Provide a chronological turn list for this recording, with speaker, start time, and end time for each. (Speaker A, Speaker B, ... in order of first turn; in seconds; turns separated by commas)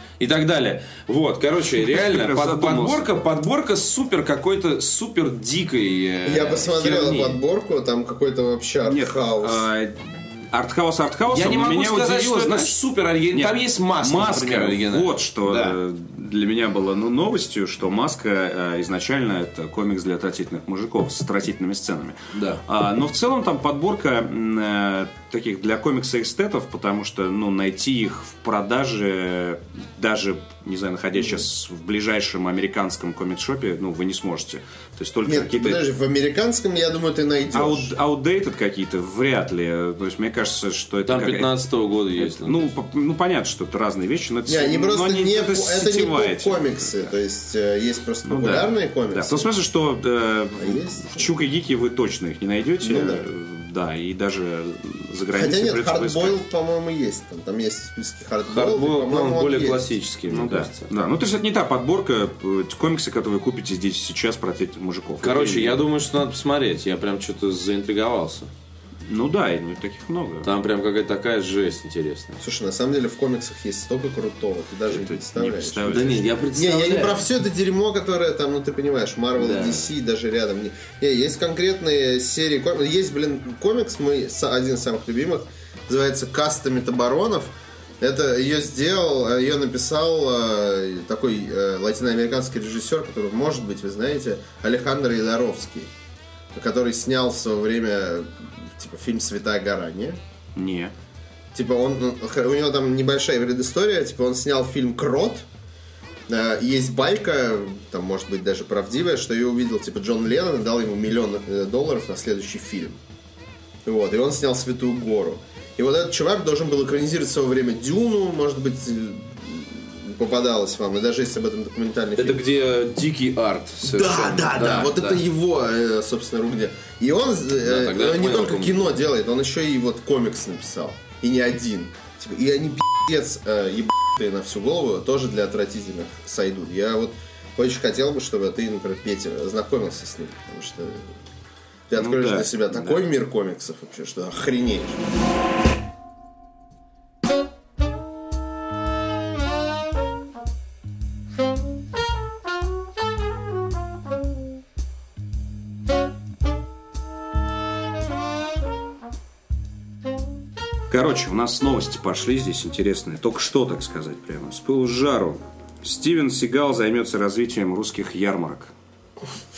Speaker A: 0.2-7.4, Speaker B: 1.8-3.1, Speaker C: 6.2-9.7, Speaker B: 8.8-12.8, Speaker A: 11.3-15.8, Speaker B: 13.3-35.8, Speaker A: 22.3-22.6, Speaker C: 35.2-37.9, Speaker B: 37.5-41.5, Speaker A: 41.1-42.7, Speaker B: 42.1-47.1, Speaker C: 44.5-49.5, Speaker B: 48.3-56.4, Speaker C: 50.6-51.3, Speaker C: 52.8-53.2, Speaker C: 55.3-59.9, Speaker A: 58.5-60.9, Speaker B: 60.3-65.8, Speaker A: 65.2-68.5, Speaker B: 69.1-70.5, Speaker A: 70.4-72.4, Speaker C: 72.4-95.9, Speaker B: 74.9-76.2, Speaker A: 75.8-77.2, Speaker A: 79.4-79.9, Speaker C: 96.5-100.2, Speaker B: 100.5-100.9, Speaker C: 101.5-105.5, Speaker C: 106.3-113.0, Speaker C: 113.8-122.4, Speaker A: 122.2-125.2, Speaker C: 123.8-141.1, Speaker A: 127.6-128.9, Speaker C: 141.9-145.0, Speaker B: 141.9-143.0, Speaker B: 160.9-168.7